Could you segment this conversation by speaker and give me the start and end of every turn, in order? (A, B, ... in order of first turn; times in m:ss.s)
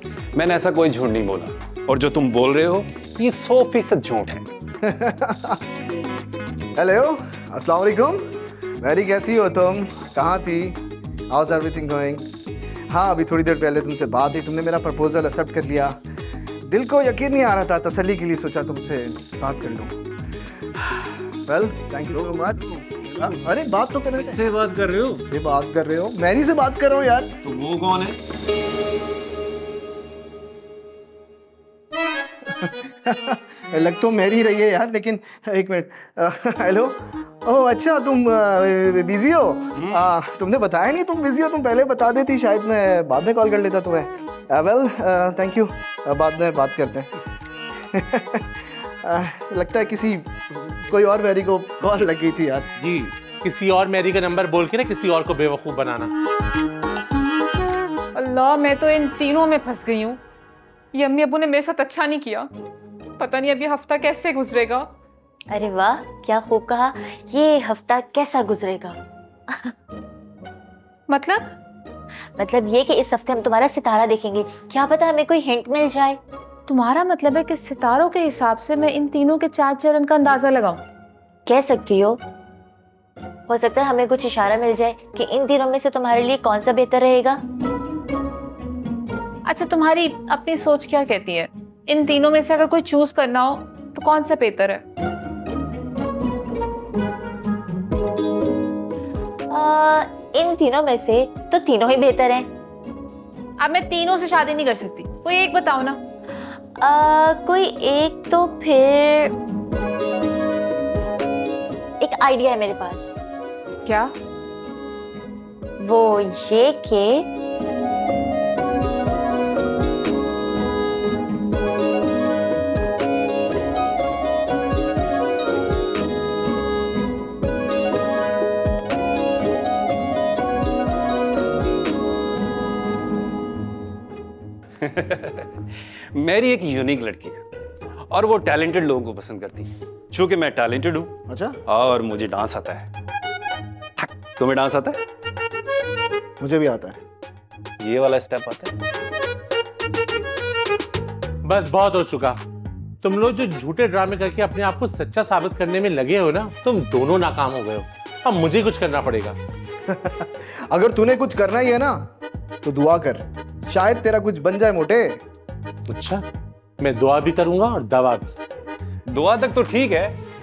0:00.3-0:04.5 A
0:04.8-0:05.6 B
0:06.8-0:08.2 B
0:08.8-0:10.8 B
0:11.3-0:12.3 B
0:12.9-0:16.0 B
0:16.6-0:20.0 B
0:20.8-0:24.4 B
0:22.1-0:23.4 A
0:24.1-0:25.2 A
0:25.1-0:27.3 B
0:27.4-0:28.2 A
0:32.6-0:47.1 B
0:47.9-0:52.7 B
0:52.8-0:56.1 C
0:58.1-1:00.2 D
1:00.9-1:02.5 D
1:03.2-1:04.9 D
1:05.5-1:09.0 E
1:11.1-1:11.4 D
1:12.4-1:16.2 E
1:16.7-1:20.8 D
1:21.5-1:22.2 E
1:23.5-1:27.4 E
1:29.5-1:34.8 D
1:39.5-1:42.5 E
1:43.6-1:46.0 D
1:46.8-1:49.3 E
1:52.0-1:53.2 E
1:53.8-1:54.1 D
1:55.8-1:57.2 E
2:14.8-2:17.4 A
2:18.1-2:21.1 A
2:21.3-2:21.6 B
2:21.7-2:22.9 A
2:24.0-2:25.0 A
2:26.4-2:27.0 B
2:27.8-2:28.7 A
2:31.4-2:32.4 C
2:33.0-2:39.4 C
2:39.9-2:42.0 B
2:42.6-2:45.2 B
2:45.9-2:46.2 C
2:46.8-2:48.3 C
2:49.1-2:50.2 A